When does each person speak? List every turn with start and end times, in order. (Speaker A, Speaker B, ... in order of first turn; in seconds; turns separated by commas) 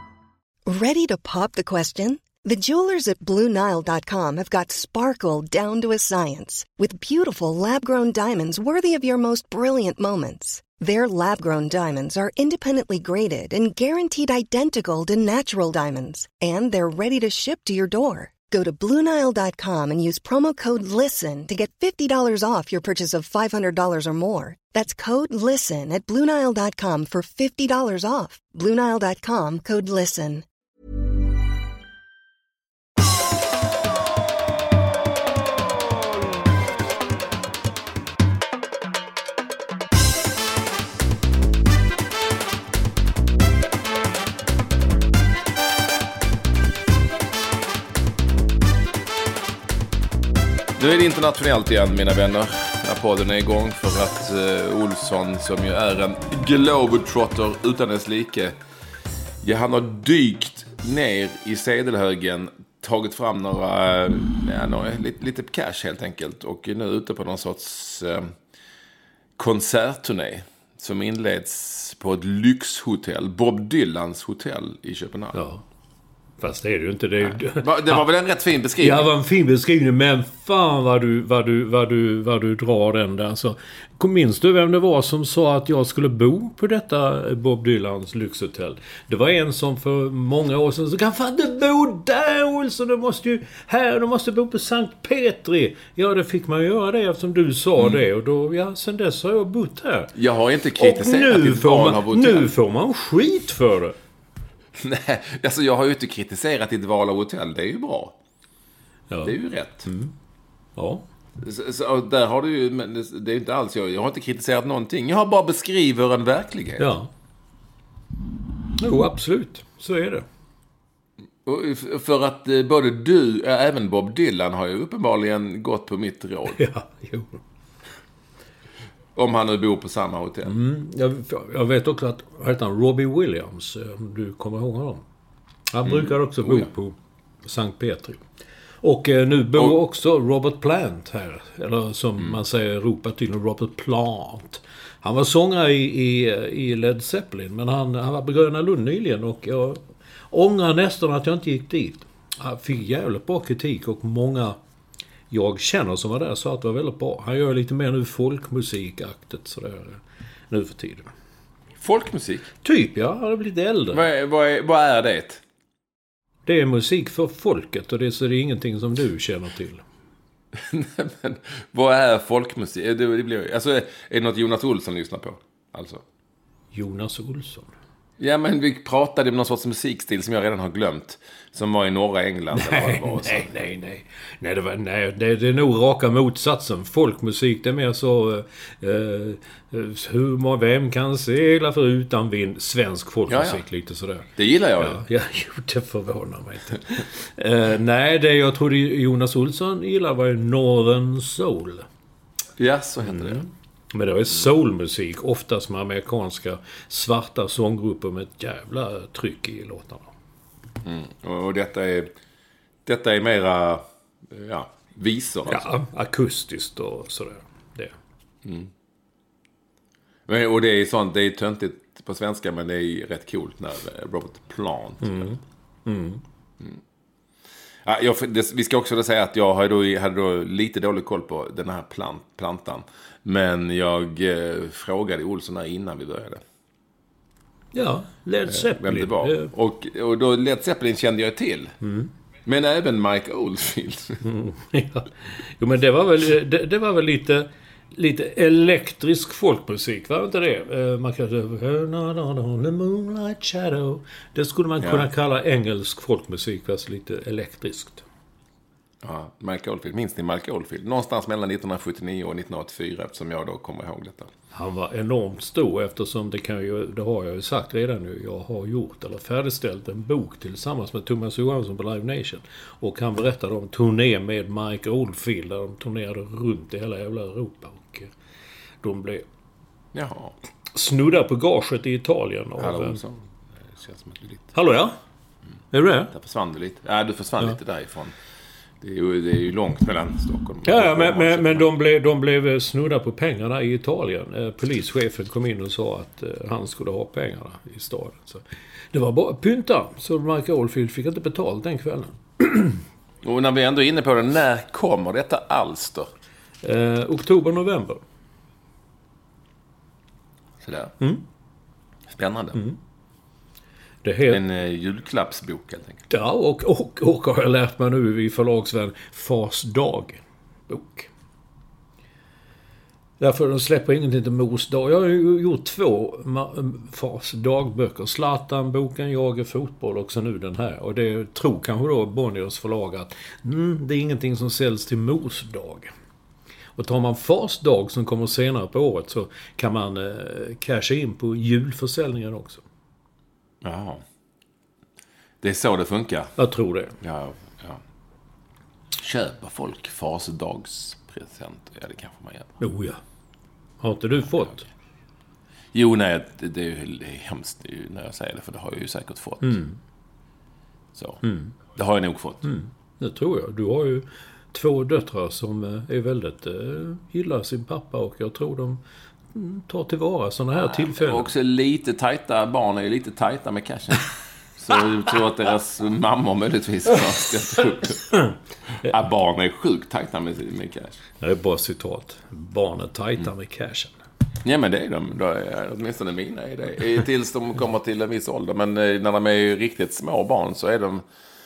Speaker A: 0.7-30.4, Speaker B: 50.8-58.6, Speaker B: 59.4-68.3, Speaker B: 69.4-75.4, Speaker C: 75.3-75.6, Speaker C: 76.4-78.0, Speaker B: 77.5-79.1, Speaker C: 78.8-100.1, Speaker B: 97.8-98.0, Speaker B: 100.2-102.5, Speaker C: 100.8-104.0, Speaker B: 104.8-108.2, Speaker C: 109.1-110.2, Speaker B: 109.2-109.9, Speaker C: 110.8-111.1, Speaker B: 111.4-116.9, Speaker C: 116.8-117.1, Speaker C: 118.8-120.2, Speaker B: 121.5-126.6, Speaker C: 126.5-127.4, Speaker B: 129.2-130.5, Speaker C: 130.4-135.0, Speaker C: 135.7-138.2, Speaker B: 135.8-136.7, Speaker C: 138.8-154.6, Speaker C: 155.3-161.1, Speaker B: 161.8-162.5, Speaker C: 162.6-164.0, Speaker B: 163.9-165.4, Speaker C: 166.5-169.8, Speaker B: 170.6-176.0, Speaker C: 176.7-177.7, Speaker B: 178.2-183.5, Speaker C: 182.5-201.9, Speaker B: 193.3-193.6, Speaker B: 194.4-195.0, Speaker B: 202.6-203.5, Speaker C: 203.0-210.1, Speaker B: 210.8-212.1, Speaker B: 212.9-215.7, Speaker C: 215.5-217.9, Speaker B: 218.4-218.7, Speaker B: 220.3-225.3, Speaker C: 225.0-226.2, Speaker B: 227.8-236.4, Speaker C: 237.7-239.5, Speaker B: 238.5-241.7, Speaker C: 241.8-242.1, Speaker B: 242.5-244.2, Speaker C: 244.2-258.0, Speaker B: 259.0-264.3, Speaker C: 264.5-278.1, Speaker C: 278.8-279.3, Speaker B: 279.9-280.4, Speaker C: 280.7-283.0, Speaker B: 282.6-284.6, Speaker C: 284.5-285.0, Speaker C: 285.7-286.1, Speaker B: 286.1-288.1, Speaker B: 288.8-291.7, Speaker C: 290.6-302.8, Speaker B: 303.2-306.1, Speaker C: 306.6-308.0, Speaker B: 310.6-310.9, Speaker B: 312.1-312.6, Speaker C: 314.0-314.4, Speaker B: 314.3-316.1, Speaker C: 316.1-321.1, Speaker C: 323.2-335.9, Speaker C: 336.8-342.6, Speaker B: 343.6-344.0, Speaker B: 345.4-346.4, Speaker C: 346.4-346.9, Speaker B: 347.0-347.8, Speaker B: 349.0-352.6, Speaker C: 352.6-353.0, Speaker C: 353.8-354.6, Speaker B: 355.7-359.6, Speaker C: 359.4-359.8, Speaker B: 361.0-361.2, Speaker C: 361.2-361.5, Speaker B: 361.7-362.5, Speaker C: 362.4-368.8, Speaker C: 369.3-371.3, Speaker B: 370.6-378.2, Speaker B: 378.7-381.0, Speaker C: 381.2-383.9, Speaker B: 384.4-391.0